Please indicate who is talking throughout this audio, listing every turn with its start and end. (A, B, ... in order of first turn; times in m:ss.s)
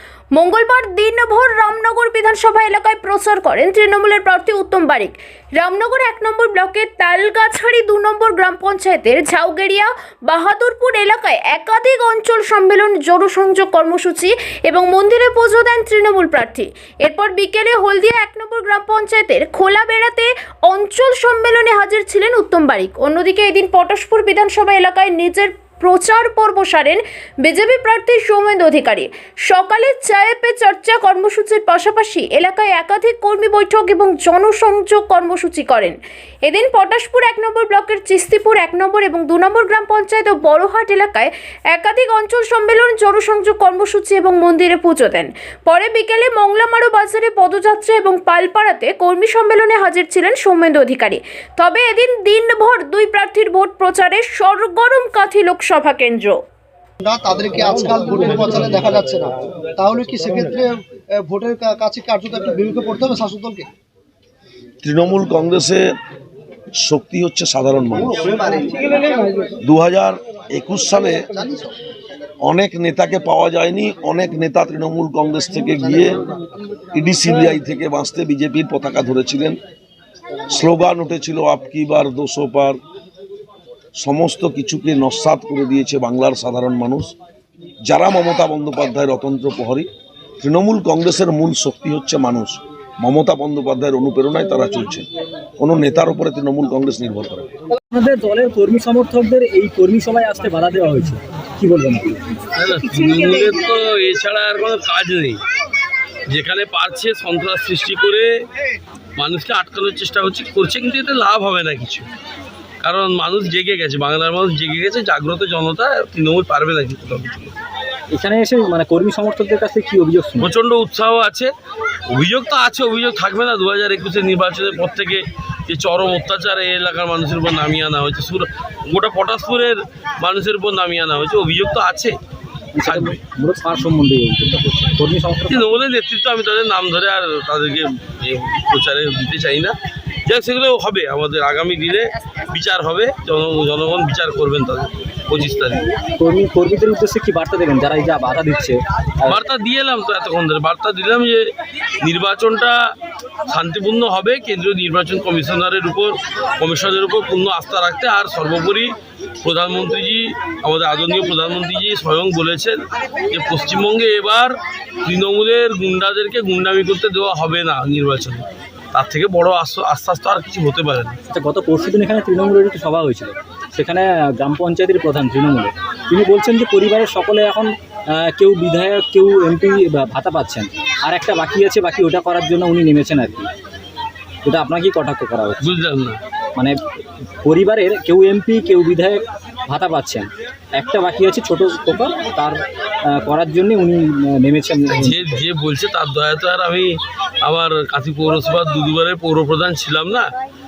0:00.3-0:56.4 A
0:57.0-1:03.7 B
1:04.8-1:05.9 C
1:06.7-1:08.4 C
1:08.6-1:09.2 B
1:09.6-1:11.3 C
1:12.4-1:16.2 C
1:16.9-1:19.6 C
1:20.5-1:22.8 C
1:24.0-1:27.1 C
1:27.9-1:29.9 C
1:30.4-1:35.1 C
1:35.6-1:37.5 C
1:37.9-1:42.3 D
1:42.6-1:45.4 E
1:46.3-1:48.4 E
1:49.2-1:52.1 E
1:52.8-1:57.5 E
1:58.1-2:00.5 D
2:00.4-2:01.5 E
2:02.1-2:12.2 E
2:12.8-2:15.8 D
2:12.8-2:13.2 E
2:15.5-2:25.9 E
2:26.2-2:29.4 D
2:29.2-2:32.9 E
2:33.5-2:51.2 E
2:51.3-3:03.5 D
3:04.4-3:05.7 D
3:05.6-3:06.2 E
3:07.4-3:15.4 D
3:14.9-3:20.3 E